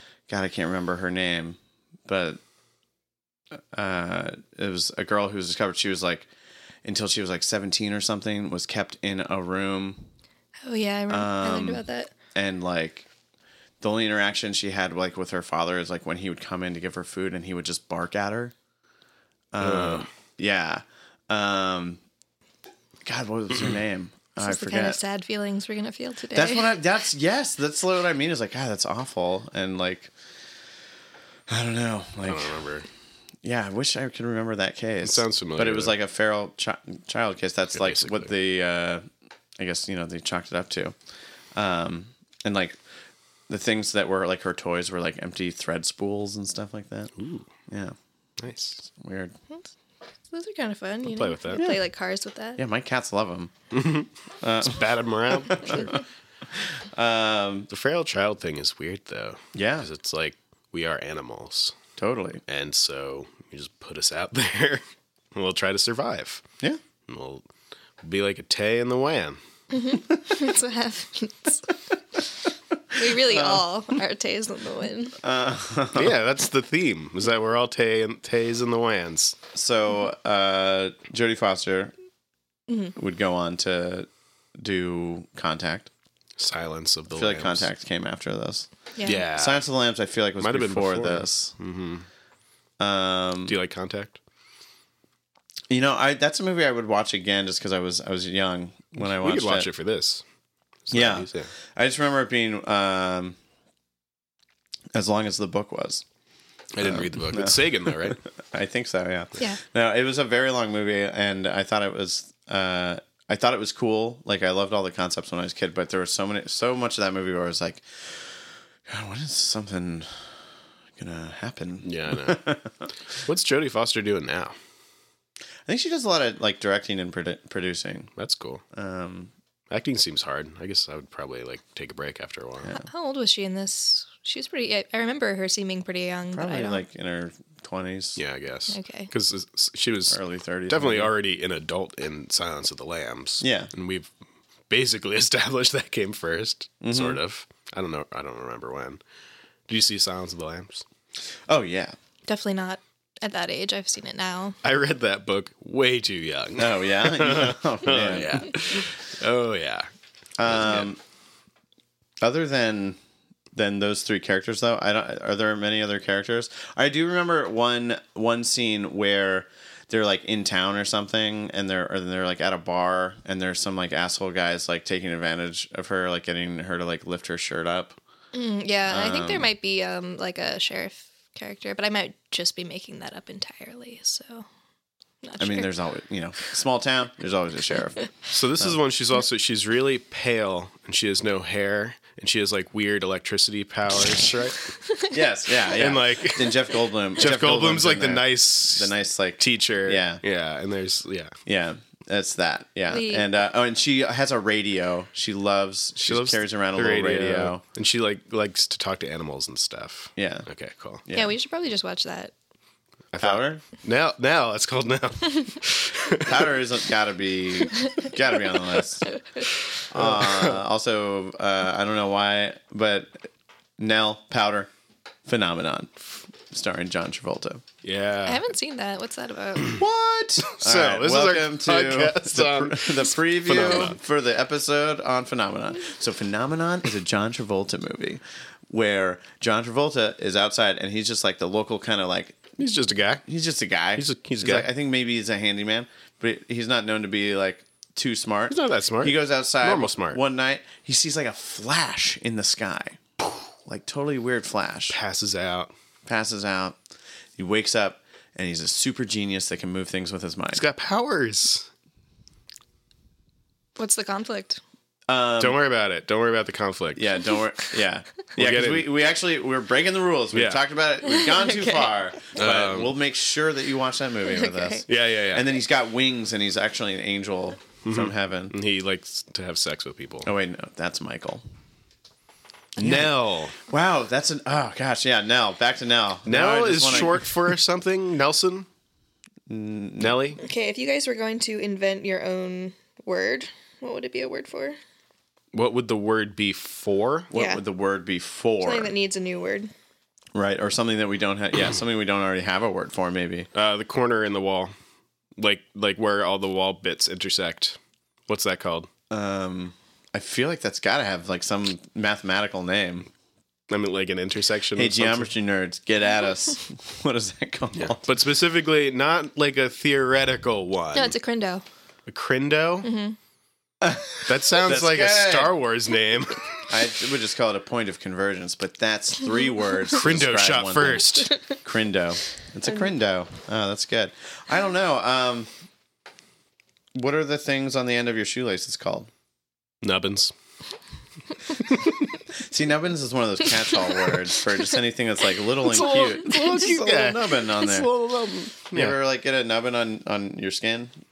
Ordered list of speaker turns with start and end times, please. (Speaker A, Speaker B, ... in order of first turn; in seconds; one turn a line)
Speaker A: 0.3-2.4
Speaker A: 3.5-6.3
Speaker A: 6.8-10.1
Speaker B: 10.7-12.1
Speaker A: 11.1-11.8
Speaker A: 12.3-13.1
Speaker A: 13.8-18.5
Speaker A: 19.5-22.0
Speaker C: 19.6-20.1
Speaker A: 23.0-25.0
Speaker B: 24.4-26.7
Speaker A: 26.3-30.1
Speaker A: 31.5-32.6
Speaker C: 32.3-32.9
Speaker A: 33.4-39.0
Speaker C: 35.0-36.0
Speaker C: 37.7-38.3
Speaker A: 39.6-41.0
Speaker A: 41.5-42.8
Speaker A: 43.5-47.1
Speaker C: 47.2-47.5
Speaker A: 47.7-48.0
Speaker C: 48.4-48.8
Speaker A: 48.8-49.4
Speaker B: 50.3-52.6
Speaker C: 51.1-51.6
Speaker A: 51.5-51.8
Speaker A: 52.6-53.5
Speaker C: 53.7-54.1
Speaker A: 54.4-55.9
Speaker C: 54.6-55.9
Speaker A: 56.5-57.7
Speaker C: 57.7-61.8
Speaker A: 59.5-59.9
Speaker A: 62.0-62.4
Speaker C: 62.5-64.8
Speaker C: 65.3-66.4
Speaker C: 67.1-67.4
Speaker C: 68.0-69.4
Speaker B: 69.7-71.7
Speaker B: 72.9-75.2
Speaker A: 73.1-73.7
Speaker A: 75.2-76.2
Speaker C: 75.9-79.4
Speaker A: 79.5-81.9
Speaker B: 82.7-82.9
Speaker A: 83.0-85.9
Speaker C: 86.4-87.7
Speaker A: 87.1-88.7
Speaker B: 89.0-89.2
Speaker C: 89.0-89.7
Speaker A: 89.3-91.5
Speaker C: 90.4-92.0
Speaker A: 92.8-93.6
Speaker C: 93.5-94.2
Speaker A: 95.7-99.7
Speaker C: 99.0-100.2
Speaker C: 100.9-101.5
Speaker A: 100.9-103.4
Speaker A: 104.9-106.0
Speaker C: 106.7-108.2
Speaker A: 106.8-120.1
Speaker A: 121.0-122.9
Speaker C: 121.8-122.4
Speaker C: 123.2-124.5
Speaker A: 125.7-128.1
Speaker C: 128.2-128.6
Speaker A: 128.7-129.3
Speaker C: 129.7-132.7
Speaker B: 132.7-136.8
Speaker A: 136.3-138.2
Speaker C: 138.2-144.1
Speaker B: 138.7-139.1
Speaker A: 140.1-141.1
Speaker A: 143.4-143.7
Speaker C: 144.7-149.0
Speaker A: 146.8-147.2
Speaker C: 149.7-150.8
Speaker A: 151.5-151.9
Speaker B: 152.3-154.6
Speaker C: 154.6-159.9
Speaker A: 156.6-158.5
Speaker A: 160.4-161.0
Speaker C: 160.4-160.9
Speaker A: 162.2-163.0
Speaker A: 163.6-178.0
Speaker B: 178.3-184.5
Speaker A: 178.9-179.5
Speaker B: 185.2-185.7
Speaker A: 185.4-188.8
Speaker C: 188.3-194.7
Speaker A: 195.1-200.2
Speaker C: 195.8-201.3
Speaker A: 201.5-207.6
Speaker B: 202.9-203.3
Speaker C: 206.0-211.0
Speaker A: 210.2-210.5
Speaker A: 211.1-211.3
Speaker B: 211.1-212.3
Speaker C: 213.1-216.5
Speaker A: 213.2-213.6
Speaker A: 216.2-219.0
Speaker B: 217.8-218.1
Speaker B: 219.1-219.5
Speaker A: 219.9-224.7
Speaker C: 219.9-220.6
Speaker A: 225.2-225.9
Speaker A: 226.5-227.6
Speaker C: 227.8-228.4
Speaker B: 228.3-229.8
Speaker A: 229.8-242.5
Speaker C: 230.4-234.0
Speaker C: 242.6-243.3
Speaker A: 243.3-253.0
Speaker C: 243.9-244.7
Speaker C: 248.5-250.2
Speaker A: 253.7-255.0
Speaker C: 254.9-255.7
Speaker A: 256.1-256.8
Speaker A: 257.4-260.6
Speaker C: 260.5-261.7
Speaker B: 263.8-264.6
Speaker A: 265.1-265.6
Speaker C: 265.4-267.1
Speaker A: 266.9-278.6
Speaker C: 268.4-268.9
Speaker C: 270.3-270.6
Speaker B: 271.1-272.0
Speaker C: 272.4-272.9
Speaker B: 274.3-274.8
Speaker C: 274.9-275.5
Speaker C: 277.8-280.3
Speaker A: 280.2-281.4
Speaker A: 282.8-287.3
Speaker C: 282.8-283.6
Speaker C: 286.3-288.7
Speaker A: 289.5-290.2
Speaker C: 290.0-290.4
Speaker B: 290.4-294.8
Speaker C: 295.5-297.3
Speaker A: 297.3-298.9
Speaker B: 297.3-297.6
Speaker B: 298.6-299.7
Speaker A: 300.4-303.5
Speaker C: 303.6-304.7
Speaker C: 305.4-308.9
Speaker A: 309.1-313.1
Speaker C: 313.7-315.3
Speaker A: 314.8-318.1
Speaker C: 317.8-321.2
Speaker B: 320.9-321.6
Speaker C: 322.1-322.9
Speaker B: 322.8-323.1
Speaker A: 323.8-325.6
Speaker C: 324.3-326.6
Speaker A: 326.7-335.5
Speaker C: 329.9-331.4
Speaker A: 336.9-339.1
Speaker C: 339.8-340.3
Speaker C: 341.6-341.9
Speaker A: 342.4-347.9
Speaker C: 345.6-349.0
Speaker A: 348.7-350.9